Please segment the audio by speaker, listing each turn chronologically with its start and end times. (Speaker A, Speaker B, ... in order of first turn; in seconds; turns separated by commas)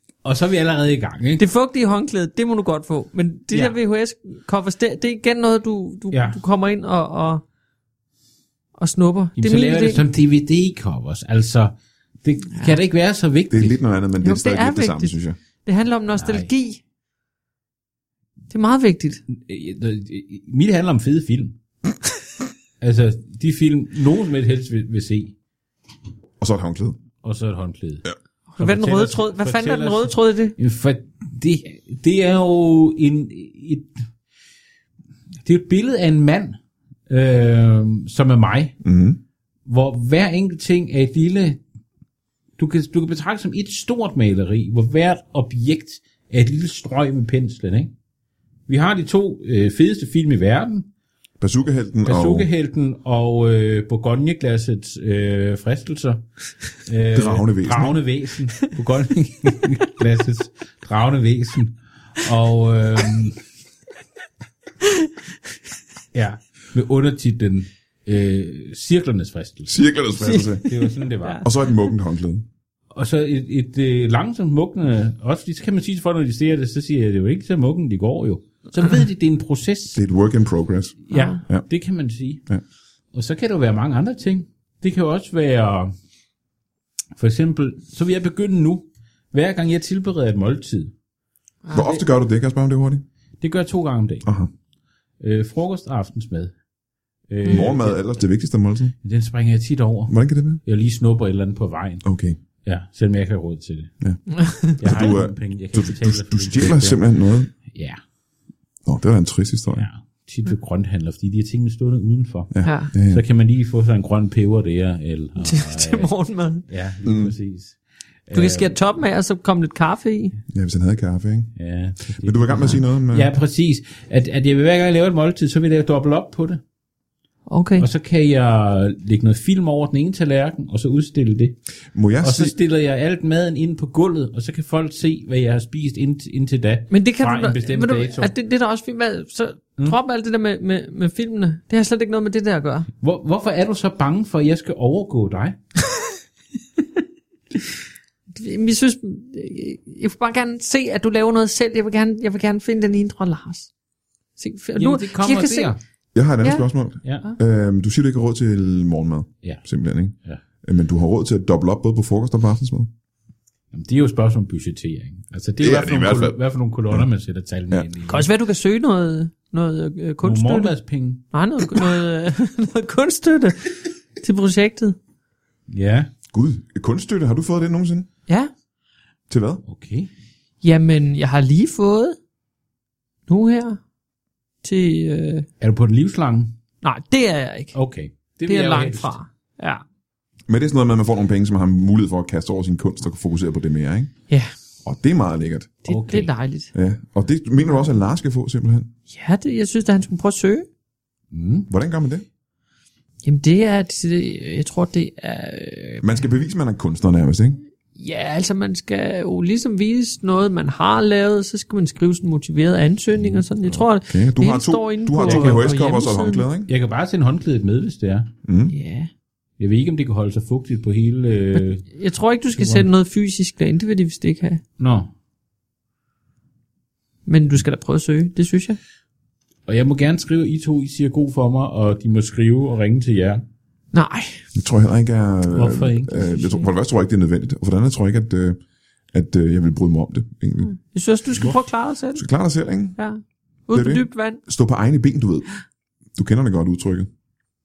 Speaker A: 0.2-1.4, Speaker B: 1.4-7.4, Speaker A: 3.5-3.8, Speaker A: 6.1-6.4, Speaker B: 8.8-10.0, Speaker A: 9.4-13.8, Speaker C: 13.5-15.4, Speaker B: 14.2-16.8, Speaker A: 16.1-16.5, Speaker B: 18.5-19.2, Speaker A: 19.3-21.6, Speaker A: 22.8-25.3, Speaker C: 26.4-27.0, Speaker A: 27.2-28.0, Speaker B: 28.5-30.5, Speaker A: 28.6-34.0, Speaker A: 35.4-38.8, Speaker C: 38.8-39.2, Speaker A: 39.6-41.6, Speaker A: 42.6-47.9, Speaker A: 48.7-50.9, Speaker C: 51.4-52.5, Speaker A: 52.0-56.2, Speaker A: 56.8-63.4, Speaker C: 57.1-58.0, Speaker A: 66.1-69.8, Speaker C: 69.7-70.7, Speaker B: 70.2-71.5, Speaker A: 70.6-71.5, Speaker C: 71.4-72.5, Speaker A: 72.9-80.0, Speaker C: 79.9-81.7, Speaker A: 81.1-82.4, Speaker B: 81.1-81.4, Speaker A: 83.1-85.9, Speaker A: 87.2-90.9, Speaker B: 91.7-92.0, Speaker C: 91.7-93.0, Speaker A: 93.4-94.3, Speaker C: 94.2-94.5, Speaker A: 95.2-96.5, Speaker A: 97.3-98.0, Speaker C: 97.4-98.9, Speaker A: 99.0-102.0, Speaker C: 100.1-100.6, Speaker C: 102.0-102.4, Speaker A: 102.6-103.9, Speaker B: 104.3-104.8, Speaker C: 104.8-107.5, Speaker A: 104.8-107.0, Speaker A: 107.6-108.0, Speaker C: 108.8-109.9, Speaker A: 109.7-116.1, Speaker C: 112.5-113.2, Speaker B: 112.6-112.9, Speaker B: 115.4-116.7, Speaker A: 116.7-118.8, Speaker C: 117.0-117.3, Speaker B: 118.3-120.4, Speaker C: 120.5-121.5, Speaker A: 121.5-126.6, Speaker C: 122.2-123.3, Speaker B: 127.5-127.9, Speaker A: 127.8-131.6, Speaker C: 131.9-132.5, Speaker A: 132.2-138.3, Speaker B: 136.9-142.9, Speaker A: 143.0-145.6, Speaker B: 148.3-153.7, Speaker B: 154.4-155.7, Speaker A: 154.8-155.8, Speaker C: 156.1-162.9, Speaker A: 157.0-157.3, Speaker A: 163.7-168.3, Speaker C: 165.6-166.4, Speaker B: 168.1-170.7, Speaker A: 170.2-171.2, Speaker B: 171.3-175.0, Speaker A: 175.7-176.1, Speaker C: 176.3-178.1, Speaker C: 179.3-179.6, Speaker A: 179.6-180.1, Speaker B: 180.6-182.2, Speaker B: 183.3-183.8, Speaker B: 184.6-185.5, Speaker A: 185.6-186.5, Speaker B: 186.8-187.8, Speaker A: 187.7-189.2, Speaker B: 188.5-189.8, Speaker C: 190.5-194.1, Speaker C: 194.8-195.7, Speaker B: 195.8-196.7, Speaker A: 195.9-196.3, Speaker C: 196.7-198.9, Speaker B: 199.1-200.7, Speaker A: 201.3-201.7, Speaker C: 201.7-202.2, Speaker B: 203.2-206.2, Speaker C: 206.0-207.6, Speaker B: 208.0-216.5, Speaker C: 213.2-216.7, Speaker A: 215.2-215.8, Speaker A: 216.7-218.3, Speaker C: 218.4-218.8, Speaker B: 218.7-219.1, Speaker A: 219.6-221.8, Speaker B: 221.9-224.6, Speaker A: 222.6-222.9, Speaker A: 224.8-225.1, Speaker B: 227.3-228.8, Speaker A: 229.7-233.4, Speaker B: 233.9-234.4, Speaker C: 234.5-238.6, Speaker A: 235.5-236.6, Speaker C: 239.1-240.7, Speaker B: 240.7-242.2, Speaker C: 242.1-243.0, Speaker B: 243.0-244.4, Speaker C: 243.7-245.5, Speaker C: 246.2-247.1